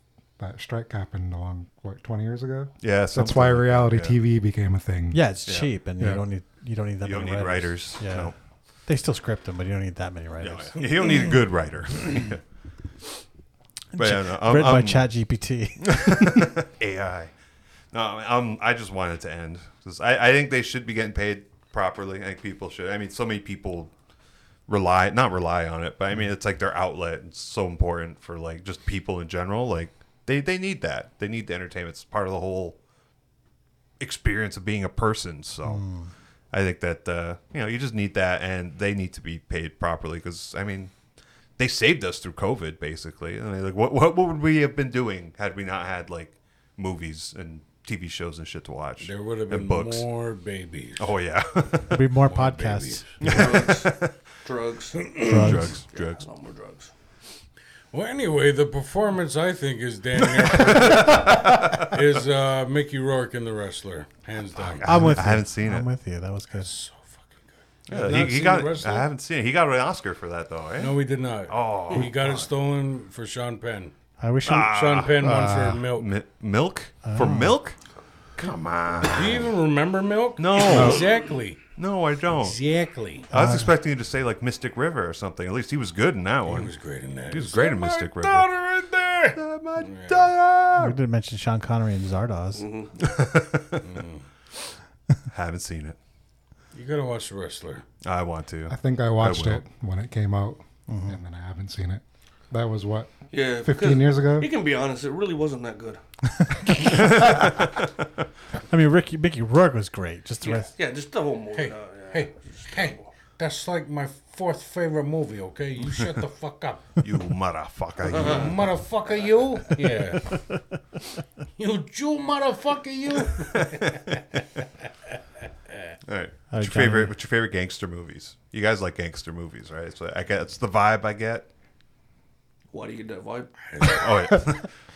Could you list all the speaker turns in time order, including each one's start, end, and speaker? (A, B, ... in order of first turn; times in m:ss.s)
0:00.4-0:05.2 A
0:02.8-0:04.2 B
0:05.1-0:10.8 C
0:07.0-0:08.4 B
0:10.4-0:12.4 B
0:13.9-0:16.1 C
0:14.0-0:15.1 B
0:15.8-0:17.3 B
0:17.9-0:23.9 B
0:24.7-0:32.8 B
0:34.0-0:35.9 B
0:35.6-0:36.1 C
0:36.5-0:40.9 B
0:41.6-0:50.1 B
0:49.0-0:51.1 D
0:51.0-0:52.1 B
0:51.9-0:53.0 C
0:52.2-0:53.4 D
0:53.2-0:54.1 B
0:53.2-0:55.1 E
0:55.0-0:55.6 D
0:55.2-0:55.8 C
0:55.3-0:56.2 B
0:55.9-0:56.9 E
0:57.9-1:05.2 D
1:00.6-1:02.0 B
1:04.6-1:05.9 B
1:04.8-1:06.7 C
1:06.5-1:09.1 D
1:07.9-1:11.0 B
1:10.8-1:13.9 D
1:11.5-1:12.5 B
1:14.2-1:14.7 C
1:14.5-1:17.8 B
1:14.5-1:16.1 D
1:15.2-1:15.8 A
1:17.0-1:17.6 C
1:18.4-1:19.6 B
1:19.1-1:21.6 D
1:20.4-1:22.6 B
1:20.7-1:21.0 A
1:22.3-1:23.3 D
1:23.3-1:28.7 B
1:23.3-1:23.7 C
1:26.5-1:30.3 D
1:29.3-1:31.0 B
1:30.8-1:32.6 C
1:32.6-1:32.9 E
1:33.0-1:33.9 B
1:33.8-1:34.2 D
1:35.3-1:36.0 B
1:36.7-1:37.8 D
1:38.0-1:39.6 B
1:38.7-1:44.5 A
1:40.9-1:41.2 C
1:43.3-1:46.0 E
1:46.9-1:47.9 B
1:48.7-1:50.7 C
1:50.4-1:53.0 E
1:51.5-1:57.0 D
1:57.0-1:58.8 B
1:58.0-1:58.5 E
1:58.1-2:00.4 D
2:00.1-2:00.6 C
2:01.6-2:03.7 D
2:03.3-2:04.4 B
2:06.0-2:11.5 B
2:06.5-2:07.1 C
2:12.7-2:13.5 E
2:13.7-2:14.1 D
2:13.8-2:14.7 B